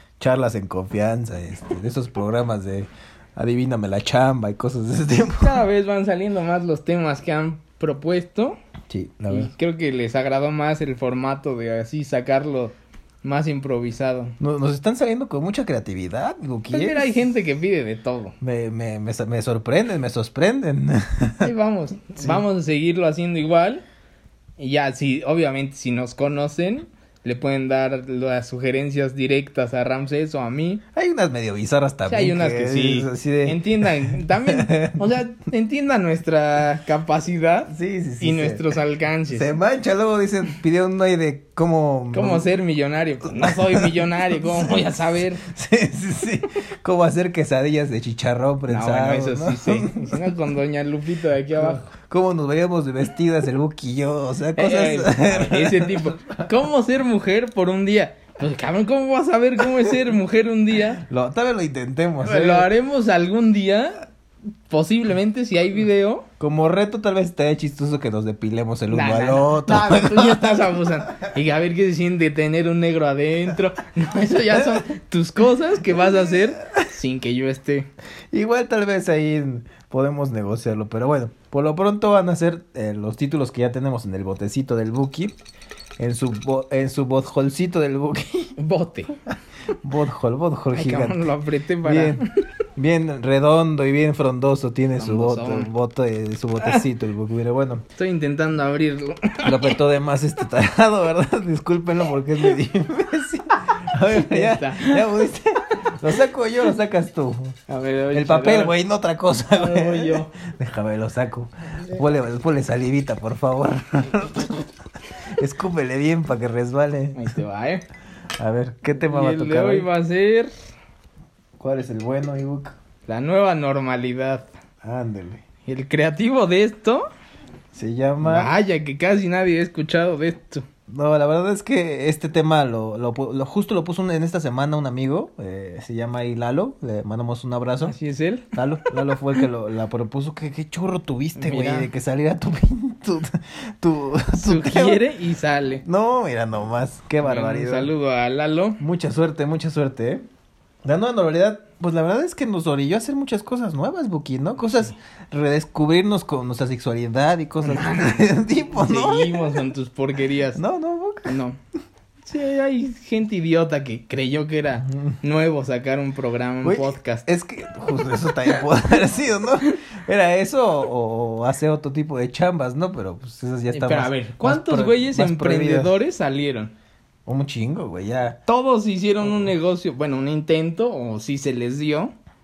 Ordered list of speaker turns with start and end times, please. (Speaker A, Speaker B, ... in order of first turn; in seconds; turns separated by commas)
Speaker A: 0.2-5.6, Speaker B: 5.4-8.6, Speaker A: 8.9-9.5, Speaker B: 9.3-14.3, Speaker A: 14.4-17.1, Speaker B: 16.7-18.4, Speaker A: 18.4-21.5, Speaker B: 21.4-23.8, Speaker A: 22.2-22.4, Speaker B: 24.6-30.8, Speaker A: 30.9-35.2, Speaker B: 32.1-39.5, Speaker A: 37.7-38.6, Speaker A: 39.3-42.5, Speaker B: 42.1-45.4, Speaker A: 43.4-44.9, Speaker A: 45.4-50.2, Speaker B: 48.7-51.8, Speaker A: 51.6-56.5, Speaker B: 54.6-61.0, Speaker A: 61.0-62.7, Speaker B: 62.2-64.0, Speaker B: 64.7-66.3, Speaker A: 66.4-70.6, Speaker B: 68.9-77.9, Speaker A: 78.3-85.3, Speaker A: 86.0-88.5, Speaker B: 88.6-89.1, Speaker A: 89.7-91.3, Speaker B: 90.7-92.2, Speaker A: 91.8-92.2, Speaker A: 92.8-97.8, Speaker B: 95.0-95.7, Speaker B: 98.0-99.7, Speaker A: 99.4-107.6, Speaker B: 104.0-105.3, Speaker B: 107.7-108.7, Speaker A: 108.1-114.7, Speaker B: 109.5-110.3, Speaker A: 115.3-117.3, Speaker B: 117.1-117.8, Speaker A: 118.4-119.9, Speaker B: 119.0-120.5, Speaker A: 121.6-122.8, Speaker B: 123.0-124.5, Speaker A: 124.8-125.4, Speaker B: 125.6-127.1, Speaker A: 127.7-128.5, Speaker B: 128.2-130.6, Speaker A: 130.9-137.9, Speaker B: 137.8-138.5, Speaker A: 138.5-145.0, Speaker B: 141.4-141.9, Speaker B: 144.4-145.8, Speaker A: 145.8-147.9, Speaker B: 147.2-148.8, Speaker A: 148.8-150.2, Speaker A: 150.8-159.7, Speaker B: 157.6-160.6, Speaker A: 160.5-161.3, Speaker B: 161.2-161.6, Speaker B: 162.2-167.2, Speaker A: 164.9-165.2, Speaker A: 166.6-175.9, Speaker B: 173.7-176.7, Speaker A: 177.2-178.4, Speaker B: 178.5-182.1, Speaker A: 179.2-179.5